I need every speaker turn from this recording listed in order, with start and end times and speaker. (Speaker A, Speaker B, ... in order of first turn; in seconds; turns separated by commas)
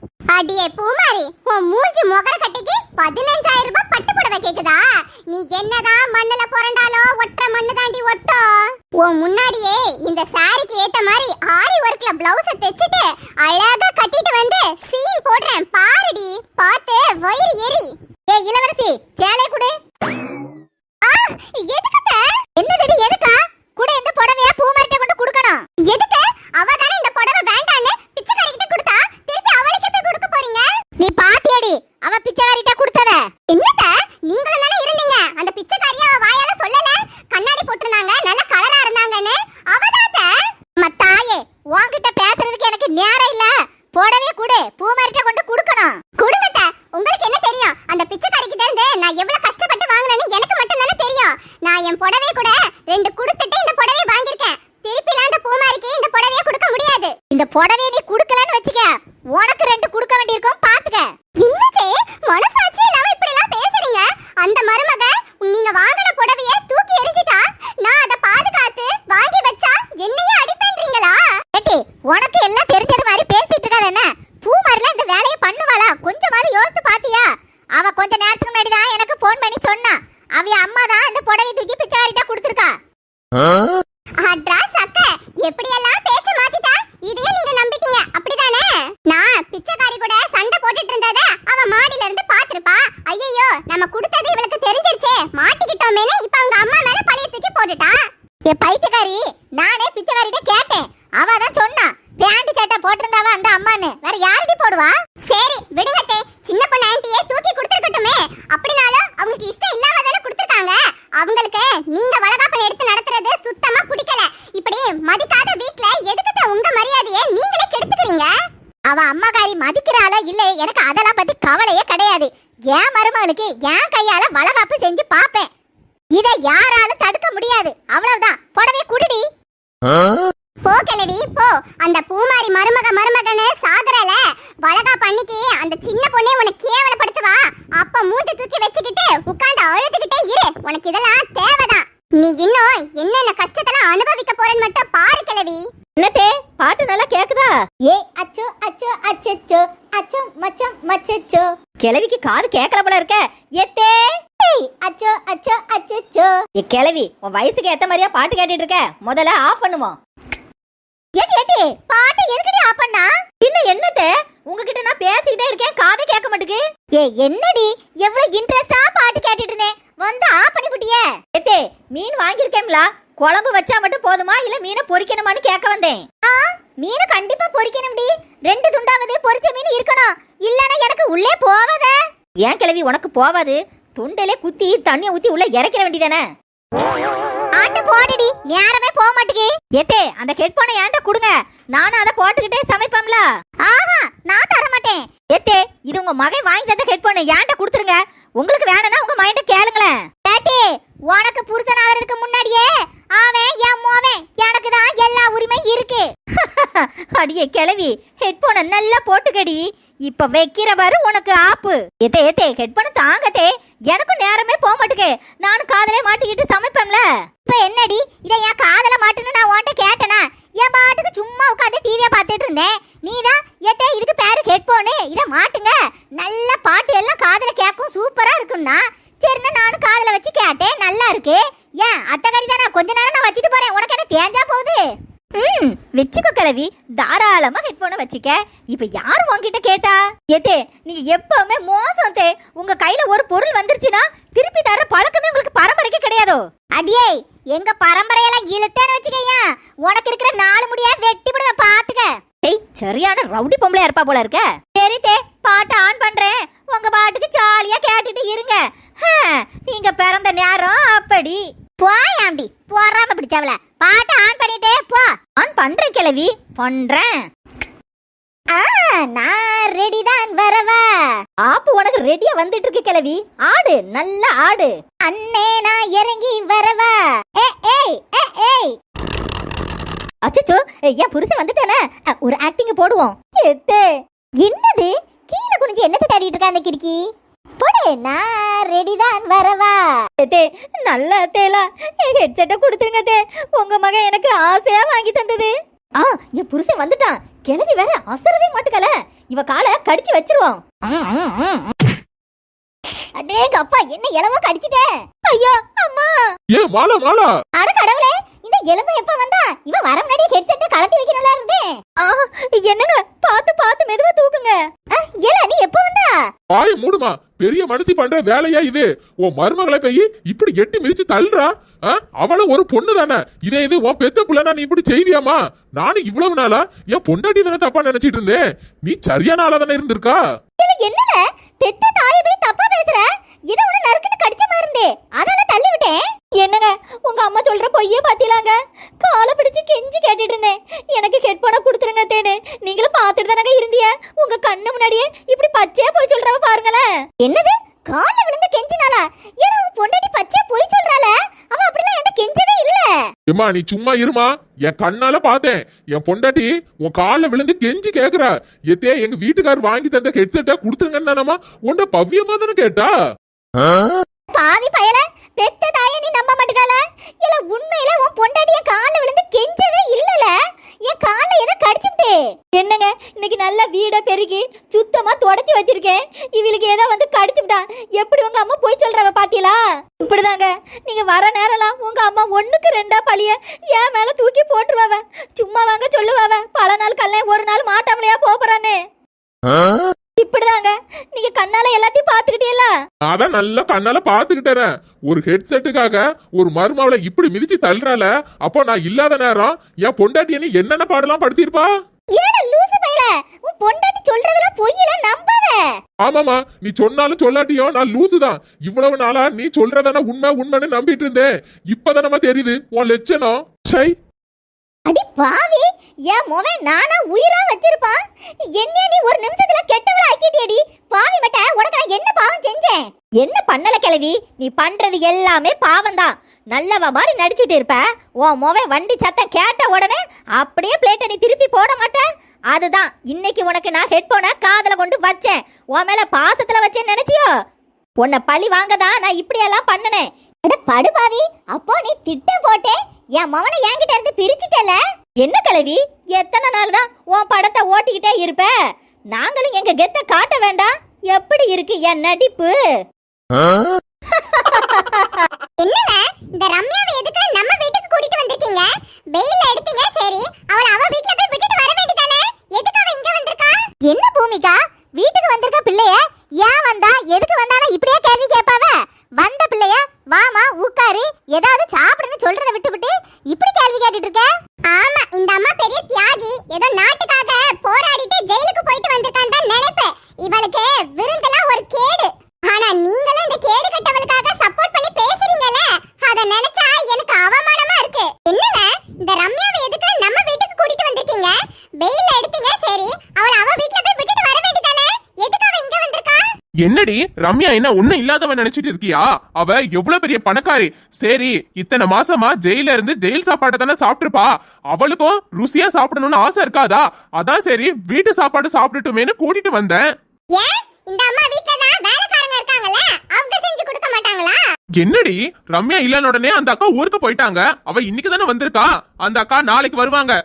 Speaker A: 0.3-8.5, Speaker A: 9.0-19.7, Speaker A: 21.0-82.8, Speaker A: 84.2-98.0, Speaker A: 98.5-118.3, Speaker A: 118.9-125.5, Speaker A: 126.1-129.2, Speaker A: 130.6-145.6, Speaker B: 146.0-147.5, Speaker A: 147.8-151.5, Speaker B: 151.8-154.1, Speaker A: 154.4-156.4, Speaker B: 156.6-159.9, Speaker A: 161.2-163.1, Speaker B: 163.4-166.6, Speaker A: 167.0-171.1, Speaker B: 171.3-176.0, Speaker A: 176.3-181.9, Speaker B: 182.4-186.2, Speaker A: 187.6-189.5, Speaker B: 189.8-193.2, Speaker A: 193.6-195.0, Speaker B: 195.3-199.9, Speaker A: 200.2-206.1, Speaker B: 206.4-217.0, Speaker A: 217.5-234.8, Speaker B: 235.4-246.4, Speaker A: 246.8-252.1, Speaker B: 252.4-261.4, Speaker A: 261.8-265.1, Speaker B: 265.4-267.2, Speaker A: 268.5-271.1, Speaker B: 271.4-274.7, Speaker A: 275.0-278.7, Speaker B: 280.2-283.9, Speaker A: 284.4-287.0, Speaker A: 287.6-290.0, Speaker B: 290.2-301.8, Speaker A: 303.1-304.9, Speaker B: 305.3-306.2, Speaker C: 306.5-307.3, Speaker A: 307.6-311.7, Speaker B: 312.0-314.6, Speaker A: 314.9-316.2, Speaker C: 316.5-330.2, Speaker A: 330.6-335.9, Speaker B: 336.4-346.9, Speaker A: 347.3-352.9, Speaker C: 353.3-362.9, Speaker A: 364.4-370.3, Speaker A: 370.8-372.2, Speaker B: 372.5-388.8, Speaker B: 390.2-392.7, Speaker C: 393.1-401.7, Speaker A: 402.2-405.6, Speaker C: 406.0-413.9, Speaker A: 414.9-418.0, Speaker A: 418.5-422.9, Speaker B: 423.2-437.3, Speaker B: 438.0-440.1, Speaker A: 440.4-444.8, Speaker B: 445.2-448.5, Speaker B: 449.1-452.6, Speaker B: 454.2-455.1, Speaker A: 455.6-496.2, Speaker D: 496.6-509.8, Speaker A: 510.4-514.4, Speaker D: 514.8-520.1